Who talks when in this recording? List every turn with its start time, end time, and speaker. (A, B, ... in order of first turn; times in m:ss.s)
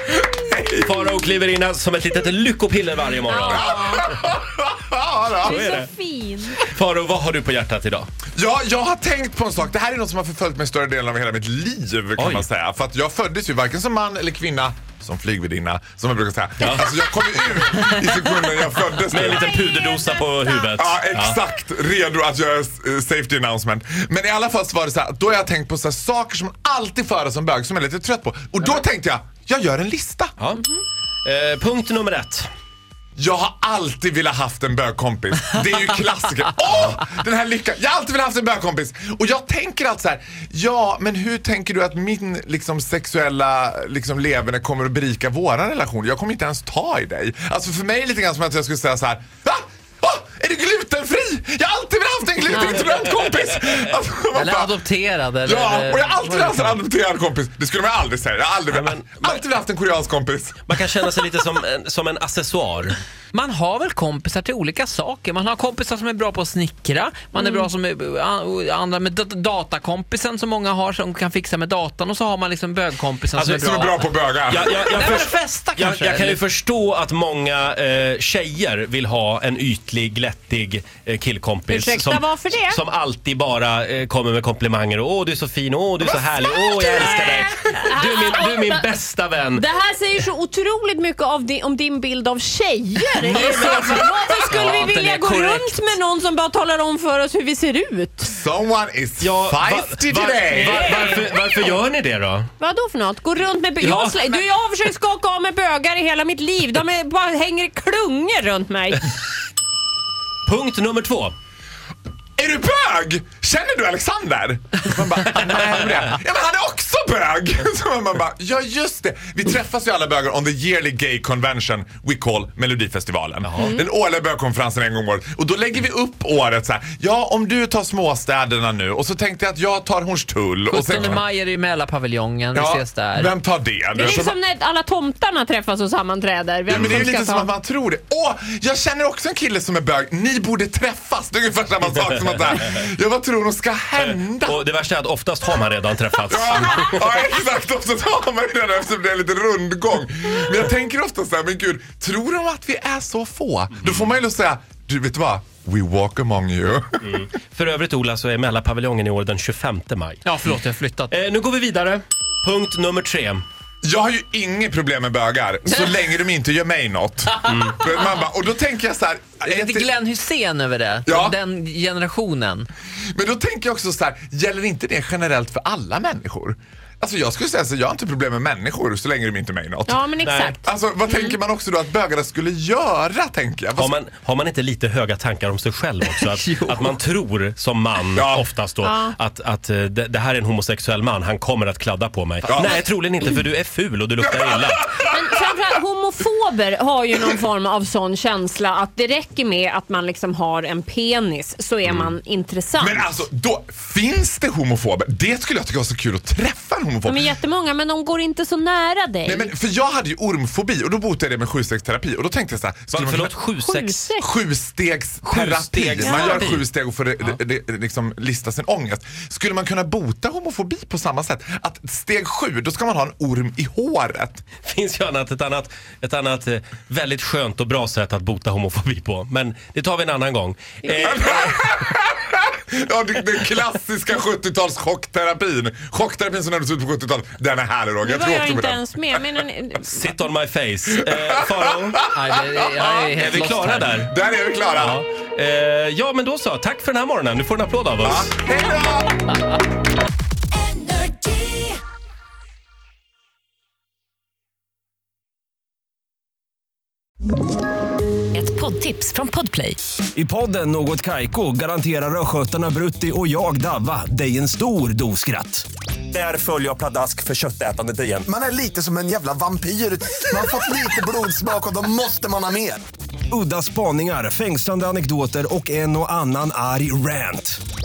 0:00.2-0:01.0 A
0:00.8-0:04.0 B
0:03.2-0:04.1 C
0:03.5-0:05.6 A
0:05.3-0:06.6 C
0:05.4-0:05.9 B
0:06.6-0:08.1 B
0:08.4-0:19.5 A
0:12.2-0:12.4 B
0:16.6-0:16.9 B
0:19.1-0:21.4 B
0:19.6-0:20.6 C
0:20.7-0:30.3 A
0:30.4-0:32.5 B
0:33.2-0:54.7 A
0:52.5-0:52.9 D
0:54.3-0:56.8 D
0:55.4-1:00.6 A
0:58.7-0:59.4 B
1:00.7-1:03.0 B
1:03.3-1:16.4 D
1:07.4-1:07.7 C
1:13.5-1:14.7 A
1:14.5-1:29.6 B
1:21.7-1:22.8 C
1:26.0-1:27.2 A
1:26.8-1:28.9 C
1:29.5-1:38.3 C
1:33.2-1:35.9 D
1:33.5-1:34.1 A
1:38.3-1:41.1 A
1:39.2-1:42.5 B
1:40.8-1:41.2 C
1:42.6-1:49.1 C
1:43.8-1:44.3 B
1:50.4-1:51.3 B
1:52.4-2:11.2 A
2:03.4-2:03.7 B
2:03.6-2:03.8 C
2:10.7-2:13.3 D
2:11.0-2:11.2 B
2:12.5-2:14.4 A
2:13.9-2:17.5 C
2:16.7-2:24.6 A
2:24.0-2:27.1 B
2:26.3-2:37.2 A
2:37.0-2:40.2 B
2:40.2-2:41.1 D
2:41.1-2:43.4 B
2:43.8-2:49.9 A
2:49.4-2:52.7 D
2:51.0-2:51.4 A
2:53.1-3:03.9 A
2:59.9-3:01.4 C
3:00.2-3:00.5 B
3:03.8-3:14.9 B
3:06.1-3:07.0 D
3:08.1-3:08.5 A
3:08.8-3:09.1 C
3:12.4-3:12.8 A
3:14.2-3:15.4 A
3:15.0-3:23.1 C
3:21.9-3:22.1 B
3:22.8-3:27.4 A
3:27.0-3:29.5 C
3:29.2-3:33.4 A
3:32.9-3:34.1 B
3:33.6-3:34.3 C
3:34.2-3:44.4 A
3:35.2-3:36.6 B
3:36.0-3:36.5 C
3:44.6-3:51.6 B
3:51.0-3:59.2 A
3:58.0-4:00.1 C
3:59.9-4:02.0 B
4:01.0-4:02.3 A
4:02.1-4:03.9 D
4:03.1-4:04.1 B
4:03.9-4:05.0 A
4:04.8-4:08.3 B
4:08.0-4:09.2 A
4:10.7-4:11.7 E
4:18.3-4:19.8 E
4:20.1-4:28.3 F
4:28.2-4:32.8 G
4:33.3-4:37.6 F